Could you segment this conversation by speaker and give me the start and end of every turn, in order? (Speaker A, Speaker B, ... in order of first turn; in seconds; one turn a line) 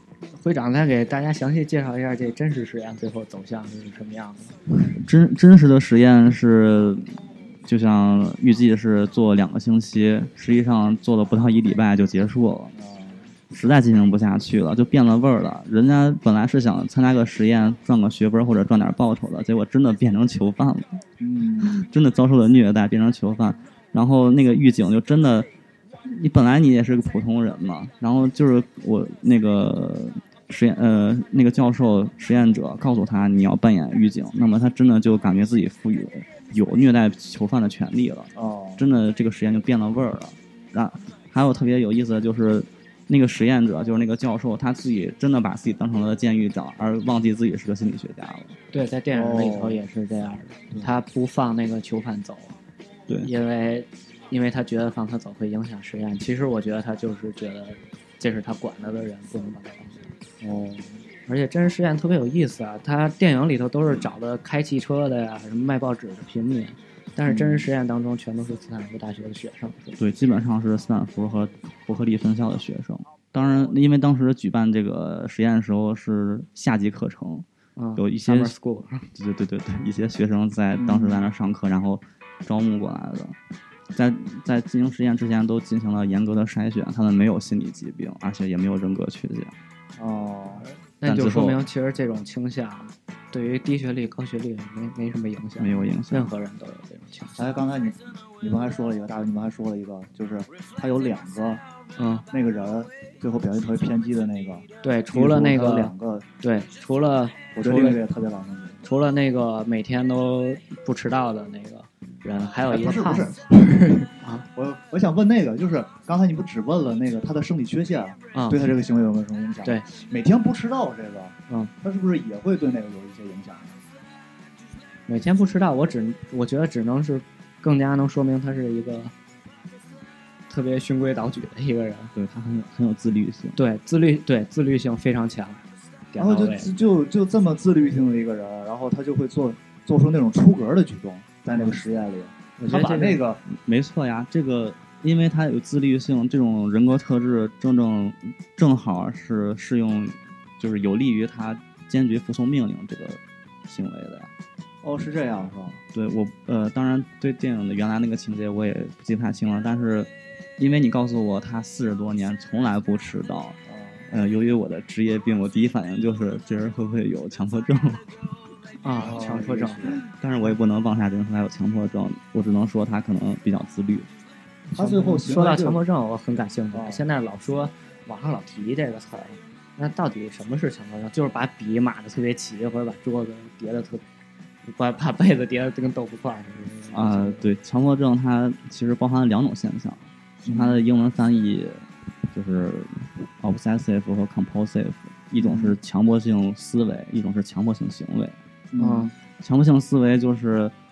Speaker A: 0.3-4.5
Speaker B: 4.9-12.7
Speaker C: 12.7-13.3
Speaker B: 13.5-21.0
Speaker C: 21.2-21.9
Speaker B: 21.6-25.5
Speaker B: 26.0-48.5
Speaker C: 38.3-38.9
Speaker A: 48.7-52.5
Speaker C: 49.1-49.8
Speaker A: 53.2-60.1
Speaker C: 60.4-61.0
Speaker A: 61.2-70.0
Speaker C: 67.2-67.7
Speaker B: 70.0-77.5
Speaker A: 77.8-79.1
Speaker B: 78.0-78.5
Speaker B: 79.1-83.3
Speaker C: 80.8-81.2
Speaker B: 83.9-89.5
Speaker C: 90.0-90.7
Speaker A: 91.0-97.4
Speaker B: 91.0-91.7
Speaker B: 95.6-96.3
Speaker C: 97.4-101.6
Speaker A: 102.0-102.2
Speaker C: 102.3-106.2
Speaker A: 104.8-108.0
Speaker C: 107.5-108.8
Speaker A: 108.8-113.3
Speaker C: 112.7-123.8
Speaker A: 114.2-114.5
Speaker A: 118.3-118.7
Speaker A: 125.1-129.1
Speaker A: 130.5-132.1
Speaker B: 132.2-133.6
Speaker A: 133.6-135.6
Speaker A: 136.1-136.7
Speaker C: 136.2-143.4
Speaker A: 142.6-143.2
Speaker B: 143.5-154.3
Speaker C: 154.8-155.8
Speaker B: 155.9-163.6
Speaker C: 163.7-164.1
Speaker B: 164.1-168.1
Speaker A: 168.8-169.9
Speaker C: 169.0-170.0
Speaker B: 169.9-174.1
Speaker C: 174.7-175.8
Speaker A: 174.7-184.0
Speaker C: 176.7-177.0
Speaker A: 184.6-187.5
Speaker B: 186.9-198.3
Speaker C: 190.4-190.8
Speaker C: 195.4-195.7
Speaker C: 198.7-199.1
Speaker A: 198.8-199.1
Speaker B: 199.4-200.7